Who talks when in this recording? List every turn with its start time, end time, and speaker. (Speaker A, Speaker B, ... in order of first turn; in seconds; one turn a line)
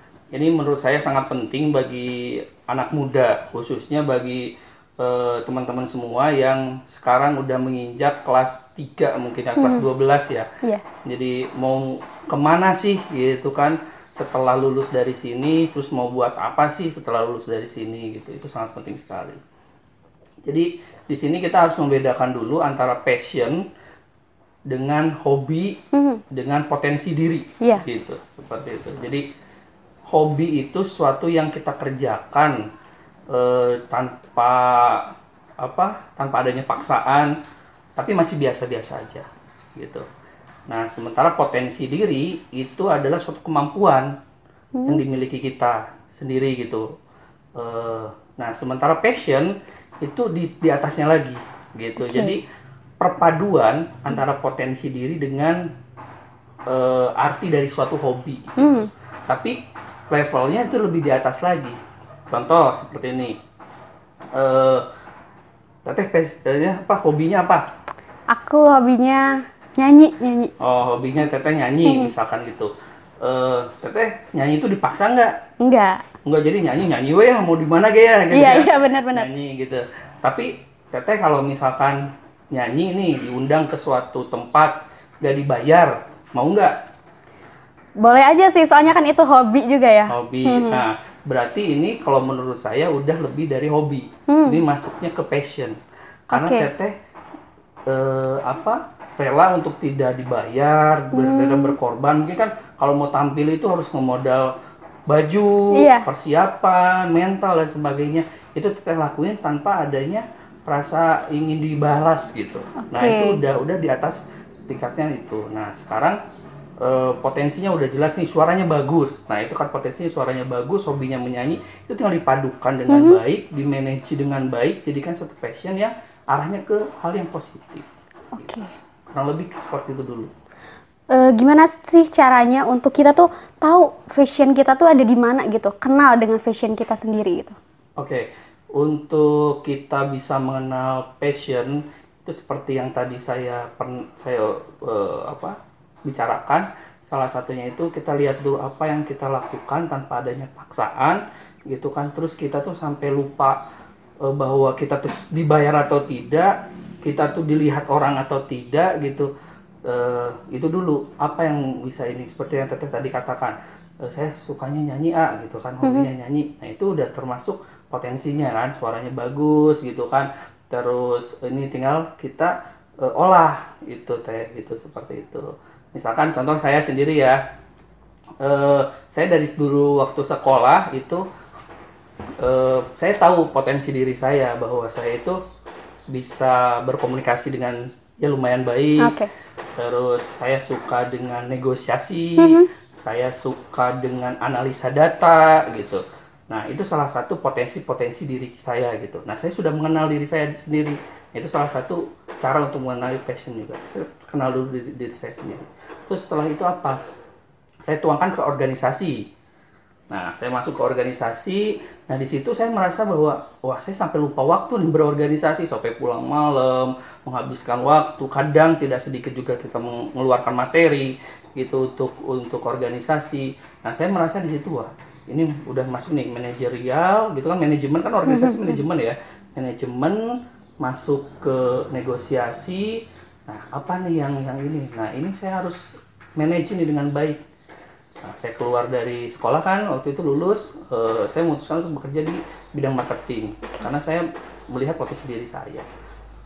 Speaker A: 0.3-10.5
Speaker B: 9.6-9.9
Speaker A: 11.0-19.4
Speaker A: 20.4-23.6
Speaker A: 24.7-25.8
Speaker B: 25.9-26.2
Speaker A: 26.3-29.2
Speaker A: 30.1-32.6
Speaker A: 33.3-37.3
Speaker A: 38.0-40.0
Speaker A: 40.7-44.1
Speaker B: 44.8-45.0
Speaker A: 44.8-46.8
Speaker A: 47.5-52.4
Speaker B: 52.0-52.4
Speaker A: 53.0-55.7
Speaker A: 56.7-58.6
Speaker B: 58.6-58.9
Speaker A: 59.3-59.6
Speaker A: 60.1-61.8
Speaker A: 62.3-63.4
Speaker A: 64.3-64.8
Speaker A: 65.8-67.7
Speaker B: 68.3-70.5
Speaker A: 70.6-75.4
Speaker B: 71.8-72.1
Speaker B: 75.6-76.0
Speaker A: 76.2-86.7
Speaker B: 78.3-79.3
Speaker B: 88.0-90.8
Speaker A: 90.1-95.8
Speaker B: 94.3-94.6
Speaker A: 96.3-96.9
Speaker B: 96.3-96.7
Speaker A: 97.9-104.5
Speaker B: 101.1-101.8
Speaker A: 105.1-116.2
Speaker B: 105.7-106.1
Speaker B: 112.8-113.4
Speaker A: 116.8-127.8
Speaker B: 122.9-123.2
Speaker B: 128.3-128.7
Speaker A: 128.6-130.3
Speaker B: 131.1-137.6
Speaker A: 138.0-153.6
Speaker A: 154.2-159.3
Speaker A: 159.8-177.4
Speaker B: 165.8-166.1
Speaker A: 178.4-181.2
Speaker A: 182.4-185.4
Speaker A: 186.1-189.1
Speaker B: 189.0-189.3
Speaker A: 189.8-207.0
Speaker B: 192.4-192.7
Speaker A: 207.8-209.2
Speaker A: 210.1-230.2
Speaker B: 228.2-228.8
Speaker A: 230.8-237.4
Speaker A: 238.2-245.9